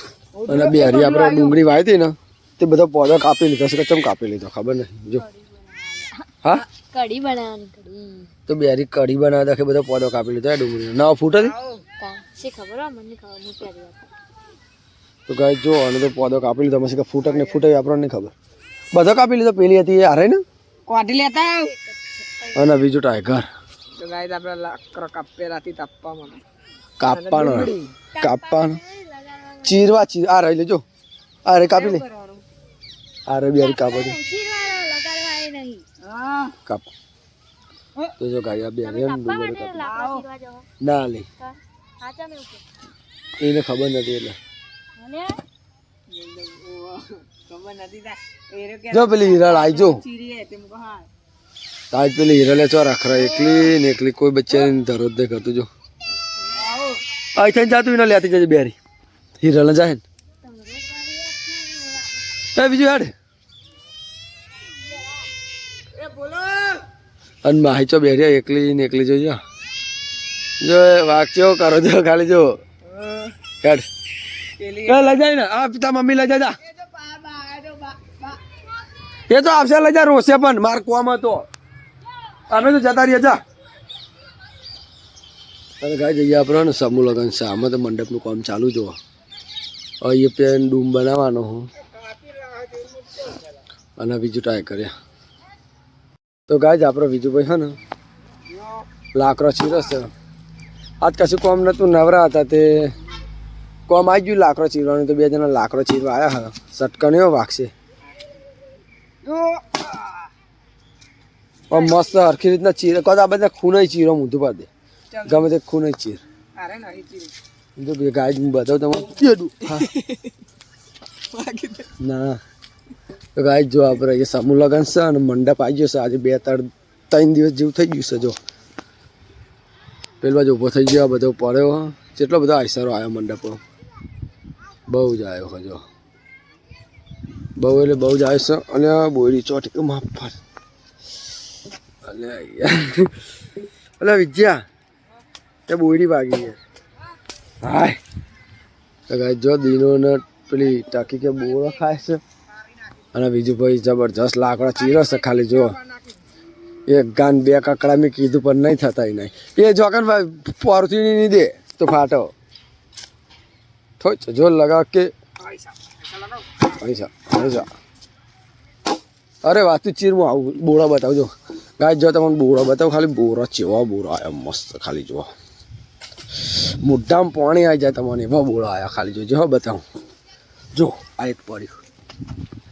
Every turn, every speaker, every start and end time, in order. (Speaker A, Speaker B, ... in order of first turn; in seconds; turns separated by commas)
Speaker A: 0.3-1.6, Speaker B: 0.5-5.2, Speaker C: 6.2-8.3, Speaker B: 8.5-11.5, Speaker C: 12.0-14.1, Speaker B: 15.3-18.3, Speaker A: 17.2-17.7, Speaker B: 18.9-20.4, Speaker A: 20.9-21.7, Speaker C: 21.7-22.5, Speaker B: 22.5-23.4, Speaker A: 24.0-26.4, Speaker B: 27.0-28.8, Speaker A: 27.1-28.1, Speaker C: 28.1-29.8, Speaker B: 29.6-30.8, Speaker B: 31.4-32.0, Speaker A: 31.7-32.4, Speaker B: 33.3-34.2, Speaker C: 33.6-35.8, Speaker A: 36.0-36.5, Speaker B: 38.2-39.8, Speaker C: 38.8-40.7, Speaker A: 39.8-40.2, Speaker B: 40.8-41.3, Speaker C: 41.4-42.6, Speaker B: 43.4-44.4, Speaker C: 45.0-45.4, Speaker A: 46.1-51.1, Speaker B: 48.9-50.0, Speaker B: 51.9-55.7, Speaker A: 56.5-57.0, Speaker B: 57.3-58.8, Speaker B: 59.4-60.0, Speaker C: 60.4-62.1, Speaker B: 62.5-63.1, Speaker A: 66.0-66.8, Speaker B: 67.4-69.4, Speaker B: 70.6-72.6, Speaker A: 72.9-73.3, Speaker B: 73.6-73.8, Speaker A: 74.6-75.1, Speaker B: 74.8-76.6, Speaker A: 76.7-78.4, Speaker B: 79.3-81.5, Speaker B: 82.5-83.4, Speaker B: 85.8-89.0, Speaker B: 90.0-91.7, Speaker B: 94.0-94.9, Speaker B: 96.5-97.7, Speaker B: 99.1-100.1, Speaker B: 101.0-102.9, Speaker B: 103.9-107.7, Speaker A: 109.2-110.2, Speaker B: 111.7-114.7, Speaker A: 111.7-112.0, Speaker A: 115.1-115.5, Speaker B: 115.2-116.2, Speaker A: 116.5-117.3, Speaker B: 117.8-119.9, Speaker A: 119.7-120.3, Speaker A: 121.3-121.9, Speaker B: 122.0-122.4, Speaker B: 123.3-128.4, Speaker B: 130.2-133.6, Speaker B: 134.9-135.8, Speaker B: 137.6-140.3, Speaker B: 142.0-143.1, Speaker B: 144.0-144.6, Speaker B: 145.7-146.6, Speaker B: 147.6-148.0, Speaker B: 149.1-152.2, Speaker B: 153.1-155.8, Speaker A: 154.7-156.1, Speaker B: 156.9-162.3, Speaker B: 164.0-165.1, Speaker A: 165.5-166.4, Speaker B: 166.7-167.7, Speaker B: 169.4-175.3, Speaker B: 176.4-179.8, Speaker B: 180.7-181.7